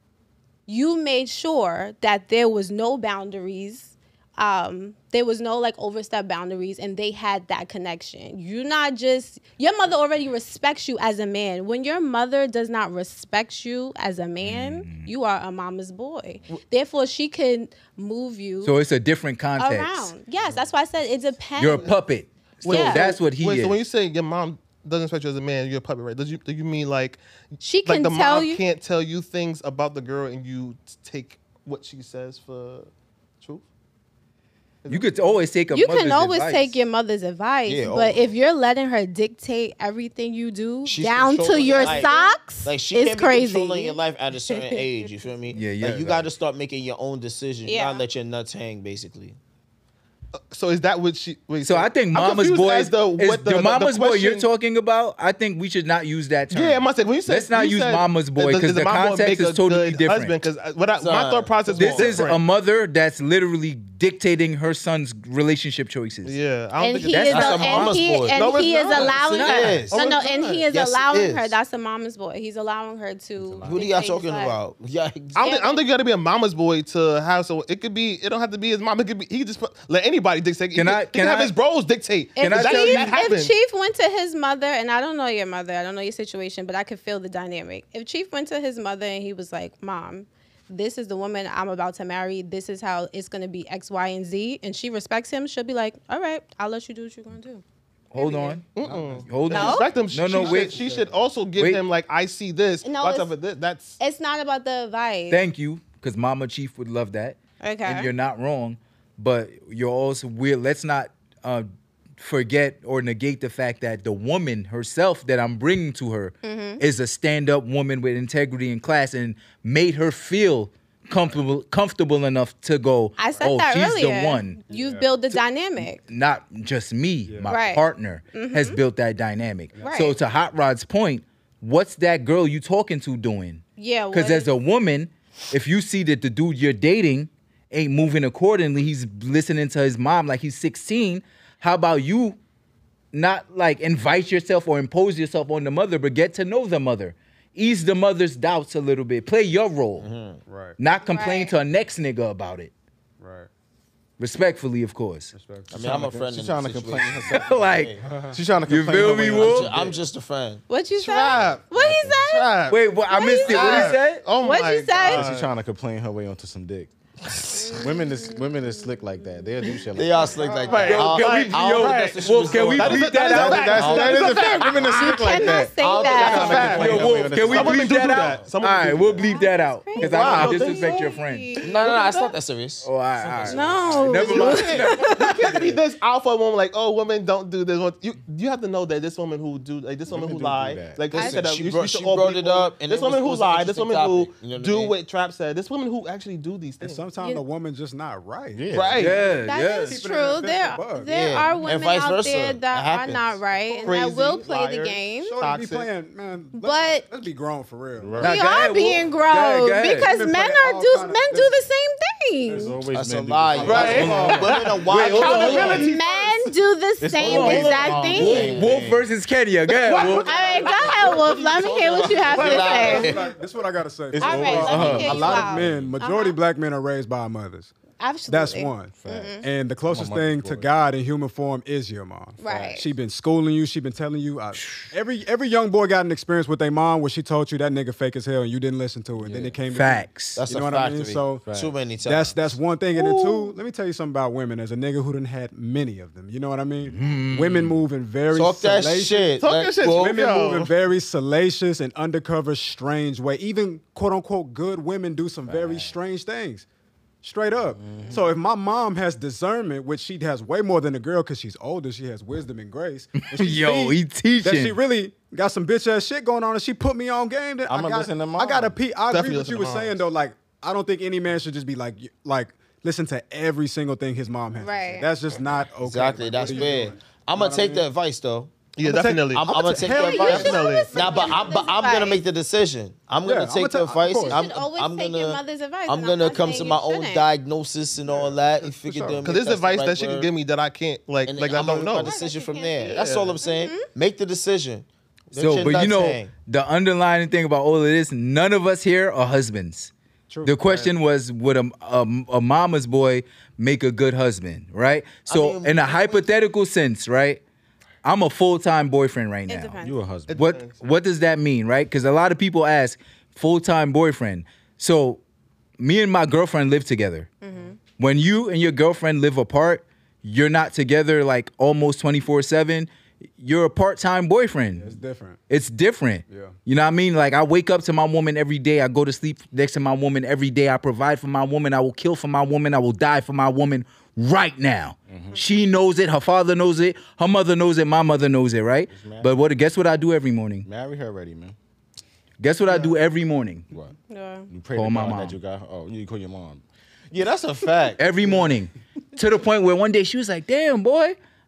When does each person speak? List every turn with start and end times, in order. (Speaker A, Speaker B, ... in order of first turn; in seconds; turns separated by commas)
Speaker A: 0.7-18.8, Speaker B: 14.4-15.1, Speaker B: 18.6-20.1, Speaker A: 19.6-21.9, Speaker B: 21.6-23.8, Speaker C: 22.6-27.2, Speaker A: 22.7-23.1, Speaker A: 27.6-28.6, Speaker C: 27.9-32.9, Speaker C: 34.9-35.4, Speaker B: 34.9-36.8, Speaker A: 35.7-44.0, Speaker D: 37.7-38.3, Speaker D: 40.9-49.4, Speaker A: 44.5-44.8, Speaker B: 45.5-46.3, Speaker A: 47.6-48.0, Speaker C: 50.4-54.5, Speaker B: 51.6-60.4, Speaker C: 56.5-62.4, Speaker D: 61.0-62.2, Speaker B: 61.8-66.4, Speaker C: 66.2-69.2, Speaker A: 66.8-74.6, Speaker B: 67.1-67.9, Speaker D: 67.2-70.0, Speaker B: 69.0-69.9, Speaker C: 69.8-70.7, Speaker D: 70.7-71.6, Speaker E: 73.4-73.9, Speaker D: 73.6-75.5, Speaker C: 75.4-83.5, Speaker A: 75.4-75.8, Speaker B: 80.8-81.5, Speaker A: 82.4-97.6, Speaker B: 82.4-83.1, Speaker B: 98.1-98.7, Speaker A: 98.2-98.6, Speaker C: 98.7-104.0, Speaker F: 98.8-99.5, Speaker B: 99.3-100.8, Speaker A: 99.5-99.9, Speaker F: 100.3-101.2, Speaker B: 101.6-101.8, Speaker A: 102.8-103.3, Speaker A: 104.0-105.4, Speaker B: 105.3-111.7, Speaker A: 107.6-108.1, Speaker B: 112.2-124.7, Speaker A: 116.4-116.8, Speaker A: 123.2-126.1, Speaker F: 124.7-125.1, Speaker B: 125.3-142.4, Speaker F: 127.2-127.6, Speaker A: 127.5-128.8, Speaker F: 129.7-130.2, Speaker A: 129.8-130.2, Speaker A: 133.8-134.5, Speaker B: 143.1-150.1, Speaker D: 150.0-150.4, Speaker F: 150.5-150.8, Speaker B: 150.8-152.7, Speaker A: 151.0-151.6, Speaker F: 153.2-153.5, Speaker B: 154.2-155.3, Speaker F: 155.3-156.1, Speaker E: 155.7-157.5, Speaker D: 155.7-158.0, Speaker B: 157.3-157.9, Speaker F: 158.0-158.4, Speaker E: 158.3-159.9, Speaker B: 158.7-159.8, Speaker D: 159.0-160.6, Speaker A: 160.7-165.2, Speaker C: 161.0-162.8, Speaker B: 162.7-164.3, Speaker C: 163.3-165.5, Speaker E: 165.0-166.9, Speaker D: 167.3-167.8, Speaker A: 167.5-169.9, Speaker E: 167.7-170.5, Speaker D: 169.9-173.1, Speaker F: 170.4-171.0, Speaker C: 170.7-175.2, Speaker B: 170.8-174.0, Speaker E: 173.2-178.0, Speaker D: 173.8-174.7, Speaker A: 174.8-176.8, Speaker D: 175.8-177.2, Speaker C: 176.1-179.3, Speaker B: 176.7-181.6, Speaker A: 179.2-182.3, Speaker D: 180.0-181.0, Speaker D: 181.6-184.8, Speaker B: 182.8-185.3, Speaker E: 183.5-184.5, Speaker A: 183.5-185.7, Speaker C: 185.0-197.1, Speaker E: 190.1-191.3, Speaker A: 191.1-191.5, Speaker D: 191.1-195.0, Speaker F: 196.8-201.6, Speaker E: 198.5-199.2, Speaker C: 198.7-199.2, Speaker B: 199.0-200.0, Speaker A: 199.3-205.4, Speaker D: 201.1-204.2, Speaker F: 203.7-204.0, Speaker C: 203.8-205.9, Speaker F: 205.2-208.3, Speaker A: 206.5-207.1, Speaker E: 208.0-208.5, Speaker A: 208.2-212.8, Speaker B: 208.2-210.1, Speaker F: 209.4-211.6, Speaker F: 212.5-212.7, Speaker E: 212.5-214.7, Speaker D: 212.9-215.9, Speaker F: 213.6-214.3, Speaker C: 213.6-216.5, Speaker B: 213.8-215.9, Speaker A: 215.2-218.6, Speaker E: 217.0-219.1, Speaker B: 217.2-220.4, Speaker D: 217.9-218.7, Speaker C: 219.8-221.3, Speaker A: 220.1-223.2, Speaker D: 220.6-223.2, Speaker C: 222.3-223.2, Speaker F: 222.5-227.7, Speaker E: 224.1-226.0, Speaker A: 224.2-226.4, Speaker A: 228.0-229.5, Speaker F: 228.3-241.4, Speaker E: 229.0-230.7, Speaker A: 232.4-232.9, Speaker D: 232.4-232.7, Speaker B: 234.6-234.9, Speaker E: 239.2-239.6, Speaker B: 239.7-240.4, Speaker D: 240.4-243.5, Speaker E: 241.5-241.7, Speaker F: 242.0-256.7, Speaker B: 246.9-247.8, Speaker D: 248.3-250.2, Speaker C: 249.4-250.7, Speaker E: 255.5-255.9, Speaker F: 257.2-277.9, Speaker E: 257.8-258.2, Speaker B: 263.2-264.8, Speaker E: 267.7-268.8, Speaker C: 269.1-270.0, Speaker A: 274.6-275.1, Speaker D: 275.8-278.5, Speaker C: 278.8-281.1, Speaker F: 278.8-281.7, Speaker D: 279.3-290.3, Speaker A: 279.9-282.2, Speaker F: 283.2-284.4, Speaker A: 284.1-287.3, Speaker F: 288.8-289.2, Speaker C: 289.2-292.2, Speaker D: 291.2-296.3, Speaker A: 292.0-293.9, Speaker C: 292.9-293.4, Speaker B: 295.4-299.9, Speaker F: 300.3-300.9, Speaker B: 300.4-307.4, Speaker D: 305.3-306.2, Speaker B: 308.0-309.8, Speaker A: 309.5-310.1, Speaker E: 309.8-310.4, Speaker C: 310.3-310.8, Speaker B: 310.3-315.2, Speaker B: 315.8-317.3, Speaker A: 317.4-317.8, Speaker B: 317.9-324.9, Speaker F: 324.7-325.4, Speaker B: 325.5-340.7, Speaker F: 326.3-326.6, Speaker E: 335.1-335.4, Speaker E: 338.9-339.3, Speaker E: 340.6-341.6, Speaker B: 342.4-343.7, Speaker A: 344.1-344.5, Speaker E: 344.5-348.4, Speaker B: 344.7-345.4, Speaker B: 348.0-351.2